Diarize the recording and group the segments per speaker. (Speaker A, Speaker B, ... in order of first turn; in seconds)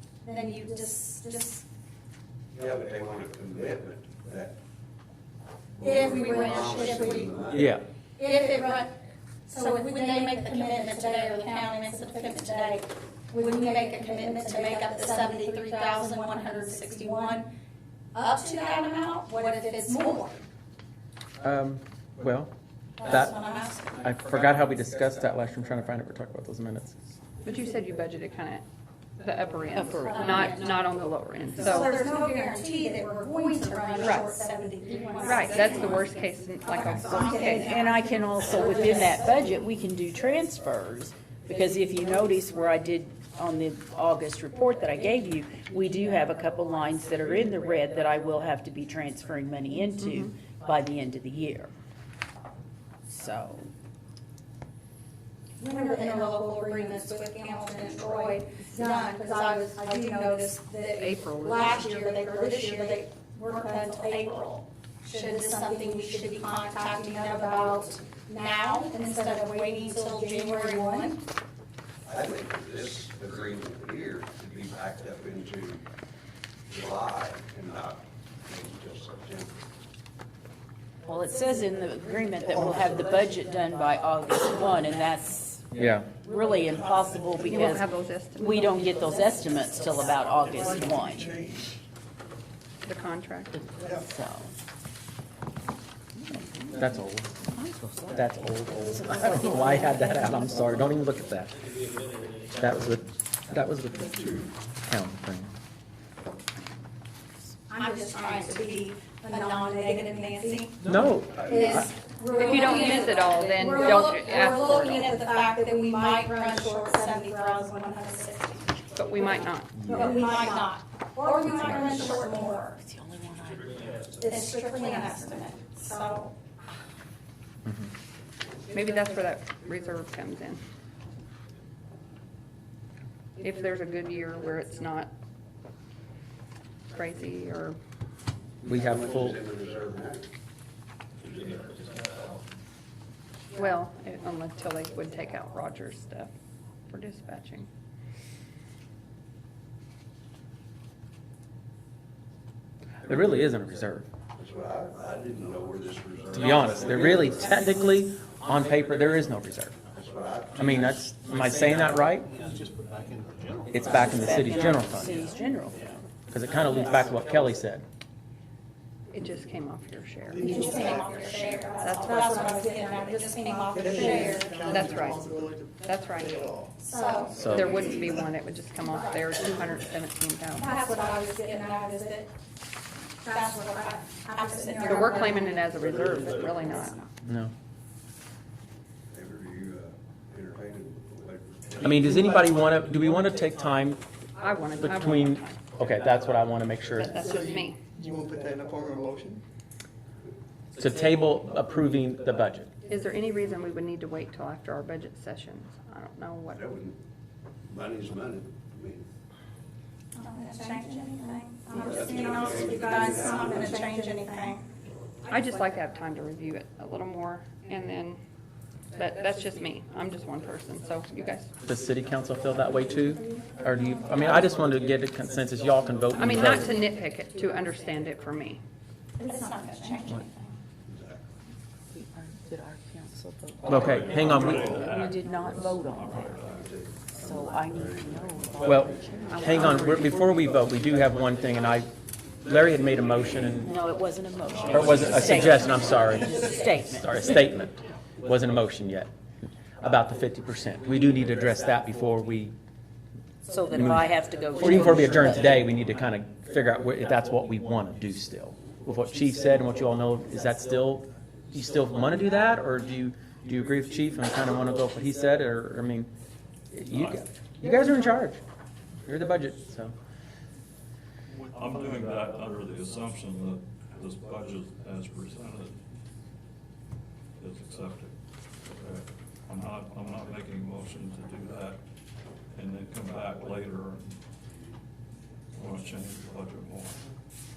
Speaker A: 0.2-1.6, 5.8-8.9, 9.5-17.5, 18.1-20.4, 23.0-24.0, 30.1-30.7, 31.6-39.3, 55.6-71.2, 107.7-110.8, 111.5-118.8, 119.9-122.8, 124.2-126.3, 170.4-174.9, 176.8-177.8, 180.6-182.3, 183.2-185.9, 210.2-214.6, 229.2-230.5
Speaker B: 2.5-4.5, 5.8-7.7, 72.0-75.8, 76.7-79.7, 86.9-87.5, 90.4-91.8, 93.8-94.0, 138.7-140.3, 141.4-141.9, 154.4-157.5, 159.9-160.7, 189.1-192.0, 206.5-207.0, 207.6-209.1, 211.8-213.7, 230.9-231.3, 236.5-239.0
Speaker C: 7.5-7.8, 21.4-22.5, 23.0-23.3, 24.0-27.0, 85.8-86.1, 96.7-97.4, 98.1-101.5, 102.5-105.5, 110.8-111.9, 138.6-139.4, 153.0-154.1, 156.3-159.8, 160.5-162.3, 163.7-165.2, 166.3-167.8, 177.4-177.8, 187.2-187.5, 191.8-194.0, 194.8-197.4, 200.7-202.7, 221.6-226.8, 233.7-234.8, 238.6-241.9, 242.4-243.7, 244.7-249.1, 249.8-252.5, 253.7-266.1, 266.7-268.4, 269.0-269.9
Speaker D: 27.4-28.6, 29.2-31.9, 35.2-37.8, 61.0-61.8, 87.4-88.9, 92.8-93.6, 112.4-115.1, 118.9-120.1, 128.7-130.6, 133.4-135.1, 136.9-137.8, 143.5-146.3, 146.9-147.7, 169.1-172.6, 173.8-176.6, 177.4-180.9, 184.8-187.0, 194.4-195.6, 196.9-197.8, 202.9-206.7, 215.3-218.2, 218.9-221.5, 226.1-228.6, 239.3-240.0
Speaker E: 29.7-30.6, 37.4-51.7, 53.1-53.7, 81.0-91.3, 93.8-94.5, 97.5-98.2, 122.8-123.9, 163.8-166.0, 231.9-236.4, 237.1-239.9, 243.6-247.5, 253.4-255.6
Speaker F: 162.4-163.8, 170.4-170.8, 173.7-175.8, 197.3-199.4
Speaker G: 233.6-236.8, 244.5-245.6, 266.9-267.2, 271.4-275.8, 277.4-281.8, 282.5-284.2, 285.5-287.0